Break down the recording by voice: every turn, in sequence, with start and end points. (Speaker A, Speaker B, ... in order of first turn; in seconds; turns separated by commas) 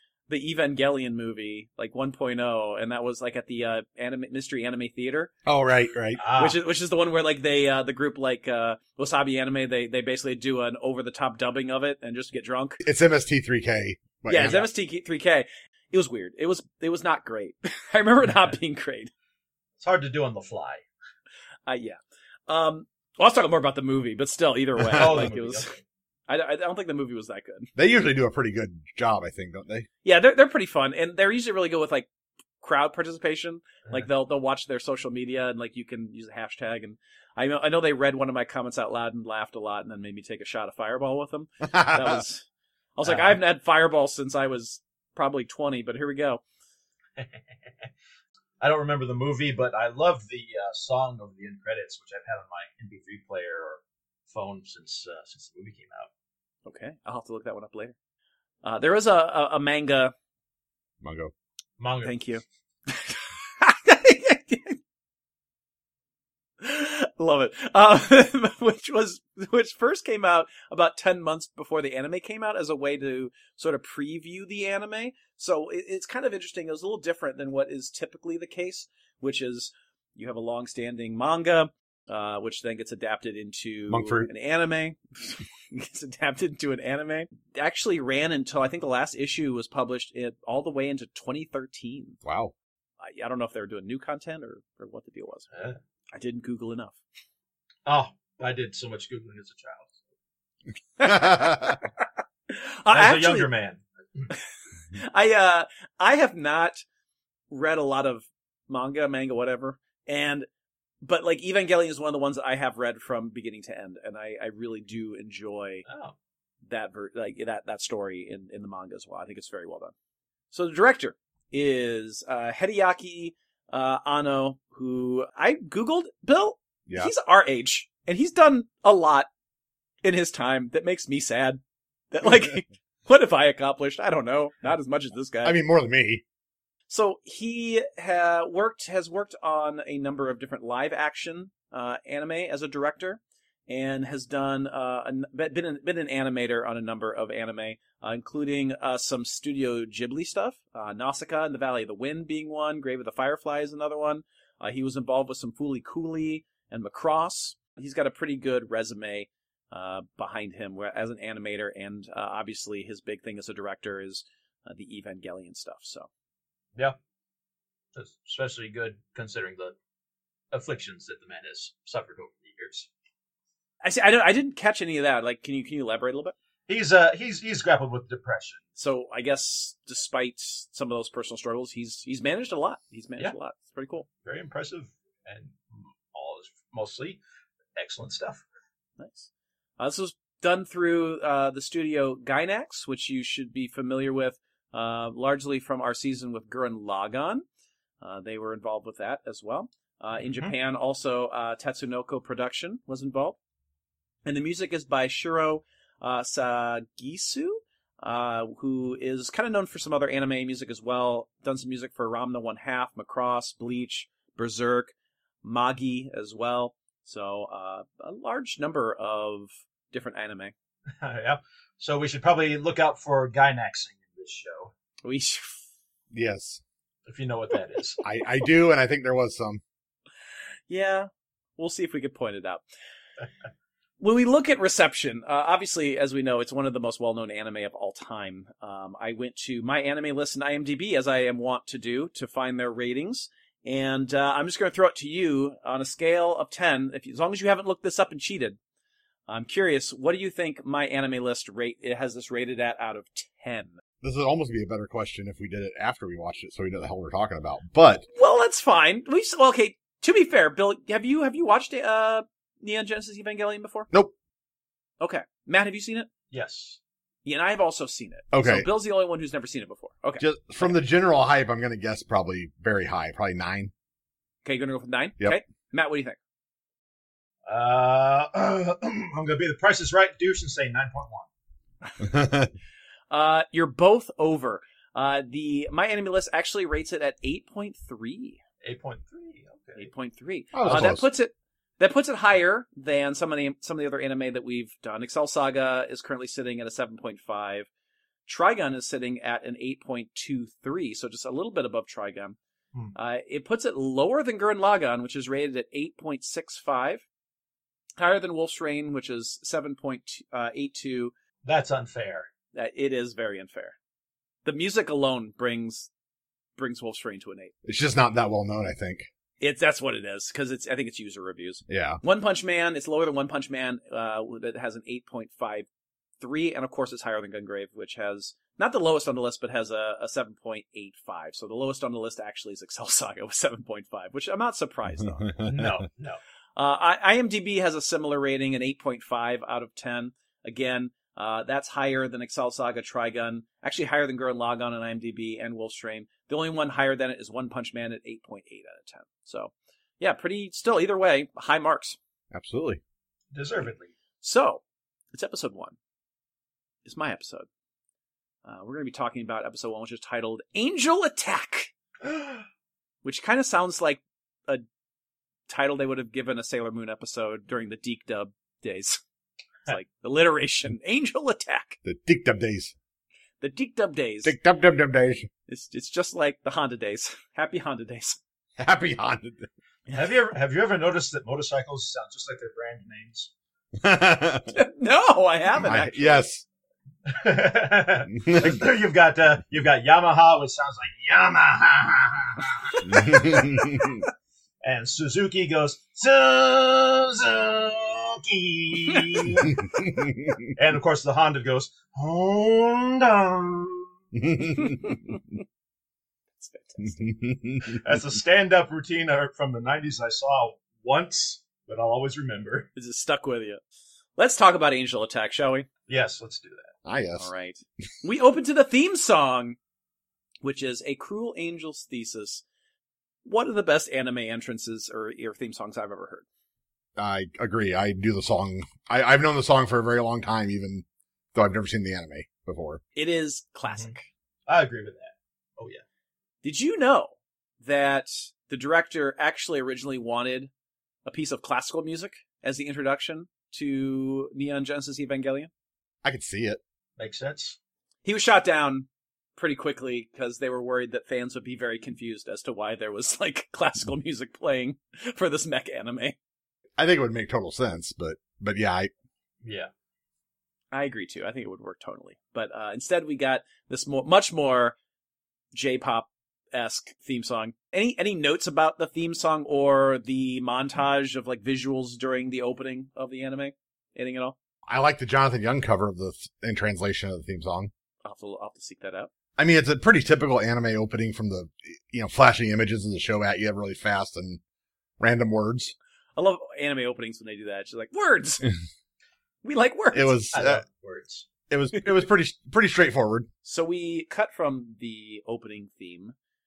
Speaker A: 0.3-5.3, Speaker B: 5.5-6.2, Speaker C: 6.2-6.6, Speaker A: 6.3-12.8, Speaker B: 12.8-14.7, Speaker A: 14.3-19.1, Speaker C: 19.8-20.8, Speaker A: 21.7-25.7, Speaker B: 24.9-25.3, Speaker C: 24.9-25.8, Speaker A: 26.3-27.7, Speaker B: 27.8-29.9, Speaker A: 30.0-32.1, Speaker A: 32.6-46.4, Speaker B: 41.7-42.2, Speaker C: 43.0-43.4, Speaker C: 48.6-53.8, Speaker C: 54.3-56.1, Speaker A: 56.7-58.0, Speaker A: 58.6-60.1, Speaker B: 61.0-61.3, Speaker C: 61.8-62.2, Speaker A: 62.0-64.8, Speaker A: 66.6-92.2, Speaker B: 83.9-84.3, Speaker B: 92.2-92.5, Speaker A: 93.0-95.5, Speaker C: 95.5-95.8, Speaker A: 96.1-97.0, Speaker C: 97.9-99.9, Speaker A: 101.0-103.5, Speaker B: 101.0-101.8, Speaker C: 102.9-104.3, Speaker A: 104.9-106.8, Speaker A: 107.5-110.5, Speaker A: 111.0-115.9, Speaker C: 115.9-116.2, Speaker A: 116.7-119.9, Speaker A: 120.5-129.3, Speaker B: 126.9-127.1, Speaker A: 130.0-135.6, Speaker B: 135.4-136.2, Speaker A: 136.9-166.1, Speaker C: 167.9-169.8, Speaker C: 170.5-172.9, Speaker A: 173.8-176.3, Speaker C: 176.7-178.6, Speaker A: 178.8-184.1, Speaker C: 184.2-187.2, Speaker C: 187.8-188.4, Speaker A: 189.0-197.4, Speaker A: 198.0-203.4, Speaker C: 200.3-200.5, Speaker A: 204.3-220.5, Speaker C: 221.0-224.7, Speaker A: 225.0-225.6, Speaker B: 226.1-226.6, Speaker C: 227.1-228.0, Speaker B: 228.0-229.6, Speaker A: 230.7-232.6, Speaker A: 234.0-248.6, Speaker A: 249.3-253.8, Speaker B: 254.0-258.1, Speaker A: 258.1-263.9, Speaker A: 265.0-266.1, Speaker C: 266.3-266.8, Speaker A: 267.2-270.8, Speaker B: 268.3-268.7, Speaker B: 270.2-273.7, Speaker A: 274.4-276.2, Speaker C: 277.5-281.3, Speaker B: 282.0-282.5, Speaker A: 283.1-288.4, Speaker C: 288.6-289.9, Speaker A: 289.8-297.7, Speaker B: 290.5-291.1, Speaker A: 298.3-302.4, Speaker A: 302.9-307.1, Speaker A: 308.0-311.1, Speaker C: 311.4-312.3, Speaker A: 312.5-313.8, Speaker A: 314.4-315.9, Speaker A: 316.6-317.5, Speaker B: 317.6-319.1, Speaker A: 319.4-325.7, Speaker B: 321.7-322.0, Speaker A: 326.2-335.4, Speaker B: 335.0-335.7, Speaker C: 335.4-336.2, Speaker A: 336.6-352.0, Speaker B: 352.3-352.8, Speaker C: 353.3-353.9, Speaker A: 354.2-354.6, Speaker A: 355.1-355.8, Speaker A: 356.9-357.5, Speaker A: 358.4-361.7, Speaker C: 362.0-362.4, Speaker A: 363.0-364.6, Speaker A: 365.5-369.0, Speaker A: 369.7-371.8, Speaker B: 371.8-372.7, Speaker A: 373.4-374.4, Speaker B: 374.2-375.3, Speaker A: 375.5-378.2, Speaker B: 378.6-379.5, Speaker C: 379.9-383.3, Speaker B: 383.8-384.5, Speaker A: 384.5-386.3, Speaker B: 385.5-386.4, Speaker C: 387.1-393.5, Speaker B: 388.2-388.6, Speaker B: 392.8-394.0, Speaker C: 394.6-399.6, Speaker B: 399.6-400.4, Speaker C: 400.6-403.9, Speaker B: 404.1-405.0, Speaker A: 404.6-405.2, Speaker A: 406.4-407.1, Speaker B: 406.8-407.8, Speaker C: 407.8-412.7, Speaker A: 412.8-413.6, Speaker A: 414.2-415.7, Speaker C: 415.9-416.7, Speaker B: 416.9-417.3, Speaker A: 417.2-419.6, Speaker A: 420.4-422.4, Speaker A: 423.2-426.2, Speaker B: 427.0-432.8, Speaker A: 432.9-434.1, Speaker C: 434.5-435.8, Speaker A: 436.4-440.5, Speaker A: 441.1-445.5, Speaker B: 446.0-446.6, Speaker C: 447.0-447.6, Speaker A: 448.1-456.2, Speaker B: 456.8-458.9, Speaker C: 459.4-459.7, Speaker A: 460.7-464.8, Speaker A: 465.5-474.4, Speaker B: 474.7-477.7, Speaker A: 478.0-479.1, Speaker B: 479.4-484.4, Speaker B: 485.0-485.8, Speaker A: 486.2-488.5, Speaker A: 489.4-490.2, Speaker B: 489.9-490.6, Speaker C: 490.3-491.3, Speaker B: 491.5-493.3, Speaker A: 493.4-496.1